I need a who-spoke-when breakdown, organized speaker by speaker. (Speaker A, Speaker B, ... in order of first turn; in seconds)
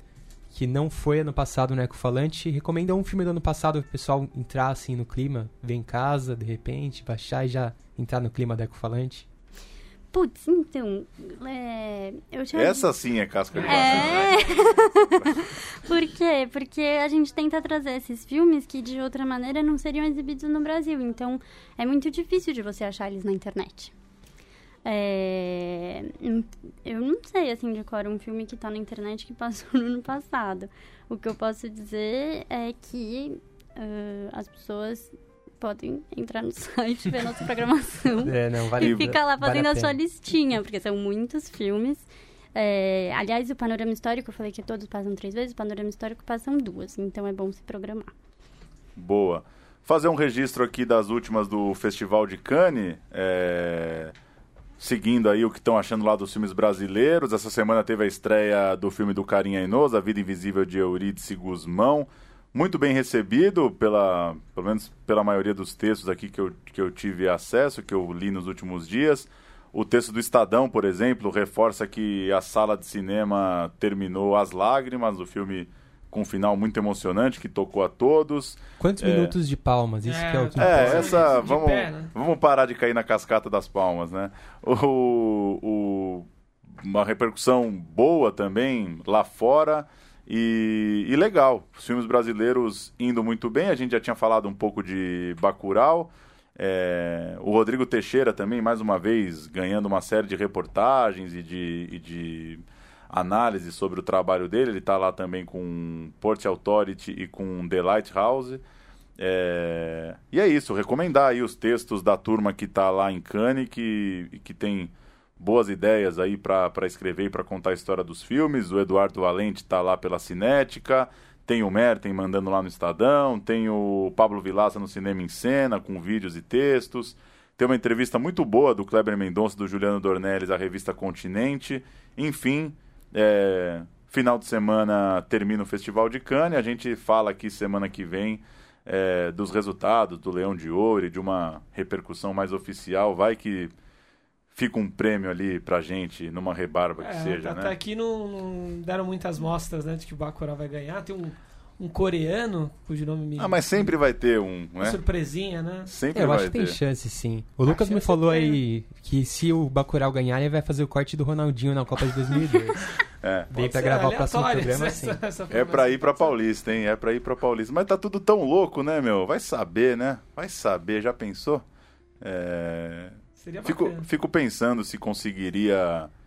Speaker A: 0.5-9.2, 38.2-40.0, 78.8-81.2, 156.1-163.0, 163.5-165.2
Speaker B: 10.1-12.9, 13.6-23.9, 24.8-48.1
Speaker C: 12.5-15.5, 38.8-39.2, 49.0-54.1, 54.8-79.3, 80.6-108.6, 109.2-143.7, 144.5-147.7, 153.4-155.0, 155.8-156.8, 163.2-163.5, 165.5-171.6, 172.2-176.1
Speaker D: 13.5-14.5, 80.0-82.1, 147.0-153.9, 154.8-155.9, 157.6-158.6, 163.5-166.3, 173.4-174.1